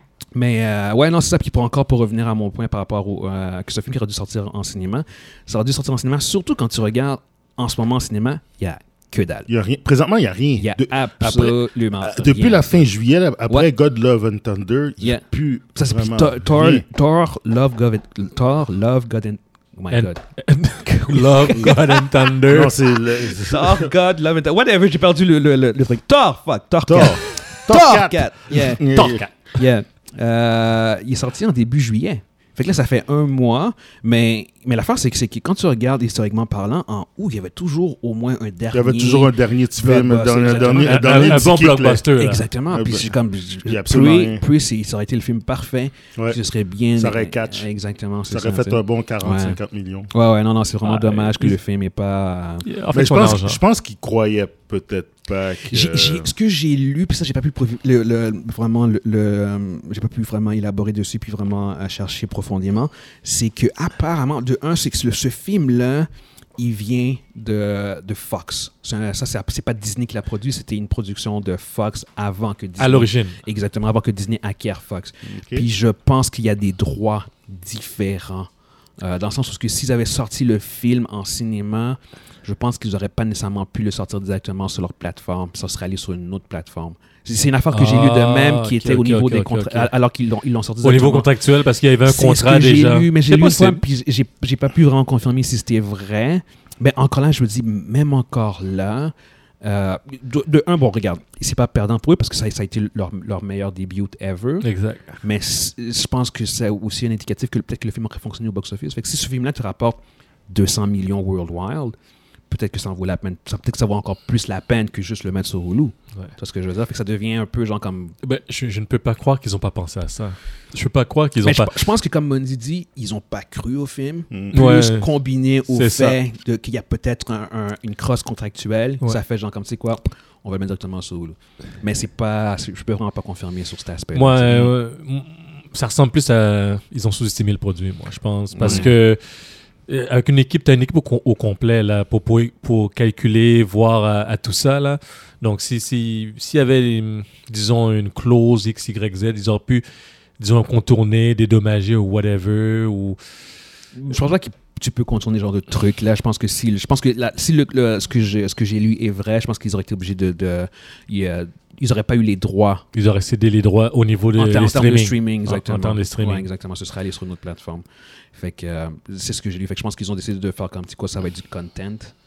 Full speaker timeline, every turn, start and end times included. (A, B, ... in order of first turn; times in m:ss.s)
0:00.3-0:09.5 A
0:09.5-0:16.8 B
0:10.6-0:12.8 A
0:15.7-0:20.2 A
0:19.9-0:22.8 C
0:20.8-0:22.3 A
0:22.4-0:23.9 B
0:23.3-0:29.0 A
0:26.8-0:29.2 B
0:28.9-0:29.3 C
0:29.5-0:41.5 A
0:38.7-0:42.0 B
0:40.6-0:42.5 C
0:42.2-0:49.6 A
0:42.7-0:43.1 B
0:43.6-0:44.4 B
0:46.9-0:47.7 B
0:48.3-0:50.1 B
0:50.1-0:52.6 A
0:50.8-0:51.6 C
0:52.6-0:53.6 C
0:52.9-0:56.3 B
0:55.6-1:18.5 A
1:12.8-1:13.4 C
1:15.2-1:15.7 B
1:19.0-1:31.3 A
1:27.7-1:29.9 C
1:30.8-1:33.8 C
1:32.0-1:44.7 A
1:44.6-1:45.2 C
1:45.2-1:50.0 A
1:50.5-1:51.9 A
1:52.5-1:58.2 A
1:58.2-2:01.7 C
2:01.4-2:14.7 A
2:04.3-2:04.6 B
2:04.5-2:05.1 C
2:05.7-2:06.2 C
2:14.1-2:19.2 C
2:18.5-2:18.9 A
2:19.9-2:29.8 C
2:30.4-2:33.2 C
2:33.9-2:42.8 A
2:42.9-2:46.4 C
2:44.4-2:52.1 A